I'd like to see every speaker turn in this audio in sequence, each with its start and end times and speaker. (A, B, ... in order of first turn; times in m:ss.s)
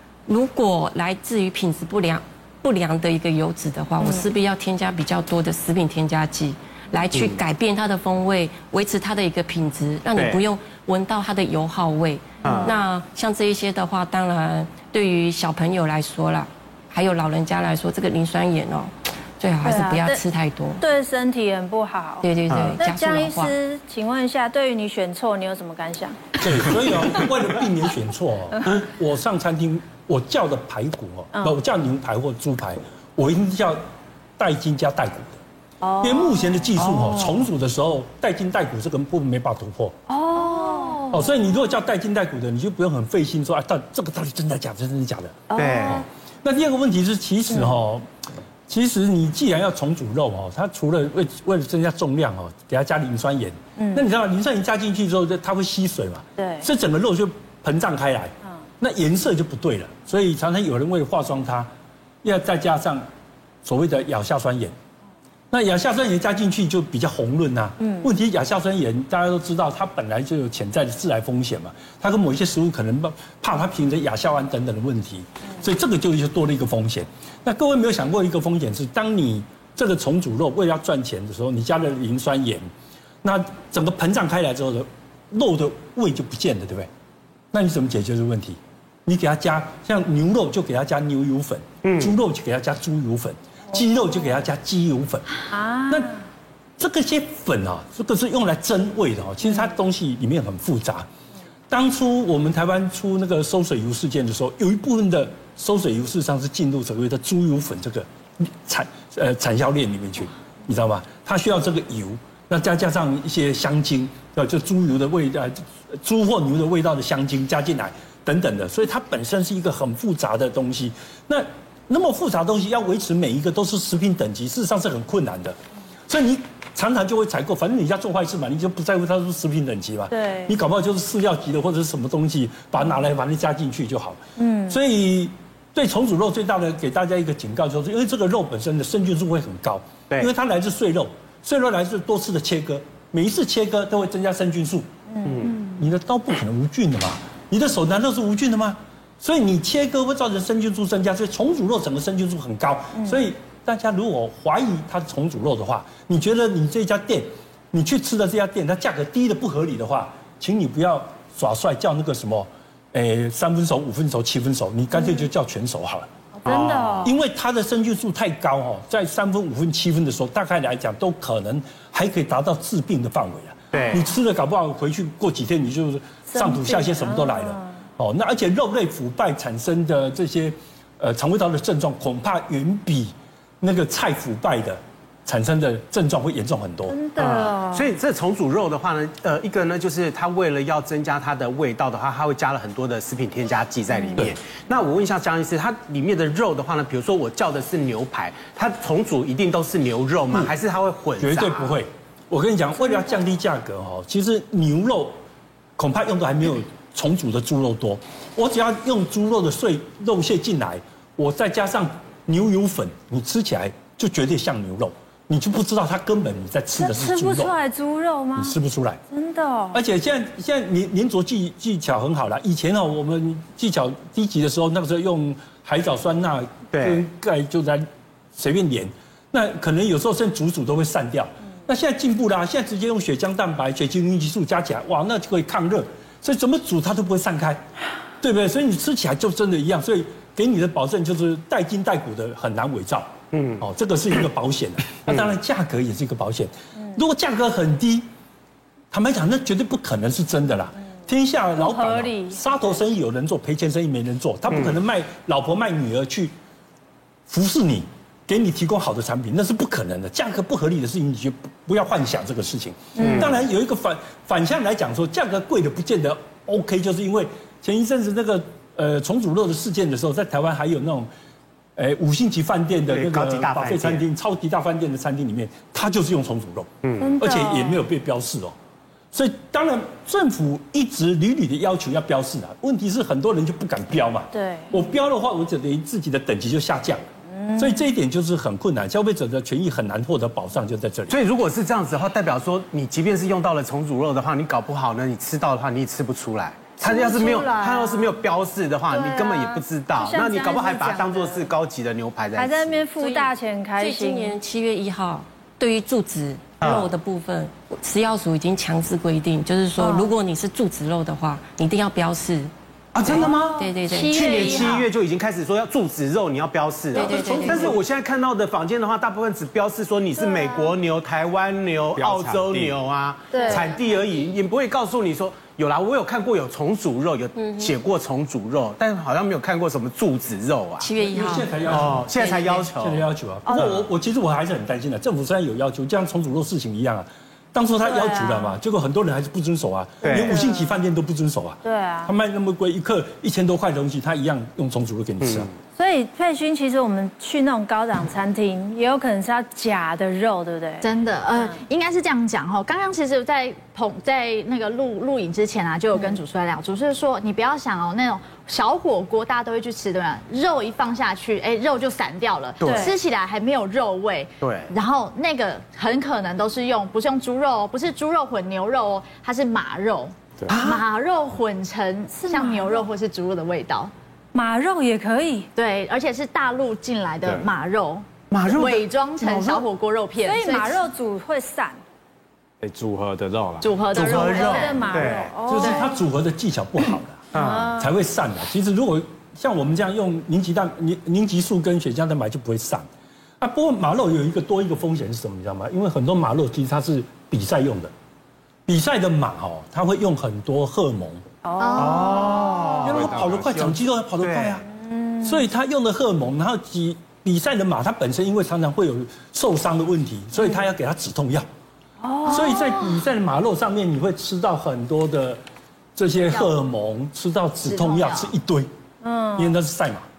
0:00.3-0:20.8 A
0:04.0-0:04.3 B
0:07.1-0:07.4 C
0:10.2-0:10.4 C
0:12.4-0:12.7 B
0:12.4-0:12.8 C
0:19.6-0:20.2 B
0:20.8-0:26.4 B
0:22.2-0:23.5 A
0:22.5-0:22.8 C
0:26.4-0:33.8 D
0:34.4-0:35.4 D
0:35.8-0:36.7 B
0:36.0-0:40.0 D
0:36.8-0:37.4 C
0:40.1-0:41.1 B
0:40.4-0:41.2 E
0:41.1-0:48.1 D
0:45.5-0:46.0 B
0:45.6-0:46.0 C
0:48.7-1:01.7 D
0:53.8-0:54.0 B
0:56.4-0:56.7 B
1:02.2-1:03.1 D
1:03.6-1:04.8 D
1:05.5-1:22.7 D
1:07.8-1:08.1 B
1:23.2-1:26.9 D
1:27.5-1:35.3 D
1:31.8-1:32.1 C
1:35.5-1:36.2 B
1:36.8-1:41.1 D
1:41.7-2:05.6 D
2:06.1-2:24.9 D
2:10.1-2:10.5 B
2:14.4-2:14.8 B
2:25.1-2:25.5 B
2:25.2-2:25.6 C
2:25.6-2:46.1 D
2:46.4-2:47.2 B
2:46.5-2:47.0 C
2:47.0-3:07.0 D
2:53.7-2:54.1 C
2:56.3-2:57.8 B
3:06.9-3:07.9 B
3:07.2-3:21.7 C
3:20.3-3:20.6 D
3:21.2-3:25.2 D
3:25.8-3:37.5 D
3:36.8-3:38.6 B
3:38.4-3:39.0 D
3:39.1-3:39.8 B
3:39.7-3:57.6 D
3:46.7-3:47.0 C
3:58.2-4:08.1 D
4:03.3-4:03.6 C
4:08.9-4:16.3 D
4:11.6-4:12.4 B
4:17.3-4:31.1 D
4:23.0-4:23.2 B
4:23.0-4:23.4 C
4:31.8-4:38.6 D
4:32.9-4:34.0 C
4:36.8-4:37.2 C
4:37.0-4:37.8 B
4:39.1-4:51.2 D
4:44.3-4:44.7 B
4:47.3-4:47.8 B
4:51.1-5:02.8 C
4:56.8-4:58.2 B
4:58.9-5:01.5 B
5:02.4-5:04.3 B
5:03.0-5:12.5 A
5:06.6-5:06.9 C
5:09.8-5:10.1 B
5:12.9-5:30.9 C
5:13.0-5:14.8 A
5:13.1-5:14.9 B
5:16.9-5:17.8 A
5:17.0-5:17.8 B
5:20.2-5:20.7 B
5:22.0-5:22.8 F
5:23.3-5:23.8 B
5:27.4-5:27.7 A
5:30.8-5:32.6 A
5:31.1-5:45.5 D
5:31.7-5:33.0 C
5:33.5-5:33.7 B
5:37.8-5:38.6 B
5:40.0-5:40.4 C
5:40.1-5:40.8 B
5:41.6-5:42.1 B
5:45.2-5:45.6 C
5:45.8-5:51.6 B
5:50.8-6:13.9 E
6:02.6-6:02.9 C
6:02.6-6:02.9 B
6:04.4-6:04.7 C
6:10.5-6:10.8 C
6:12.1-6:12.8 B
6:14.3-6:15.5 B
6:15.6-6:20.8 E
6:18.3-6:19.7 C
6:20.2-6:21.8 B
6:22.6-6:23.7 F
6:23.6-6:24.9 E
6:23.9-6:25.3 C
6:24.0-6:25.9 B
6:25.4-6:32.9 D
6:27.3-6:27.7 C
6:27.3-6:27.9 B
6:33.4-6:37.9 D
6:38.7-6:41.2 D
6:41.4-6:42.8 B
6:41.6-6:42.4 E
6:41.8-6:43.7 C
6:42.8-6:44.6 D
6:42.9-6:43.7 F
6:44.2-6:44.6 C
6:44.8-6:45.4 B
6:45.2-6:51.5 D
6:52.0-6:52.8 B
6:52.3-6:55.4 D
6:52.3-6:52.9 E
6:56.0-6:58.7 D
6:57.7-6:58.2 E
6:59.0-6:59.6 B
6:59.4-7:00.1 D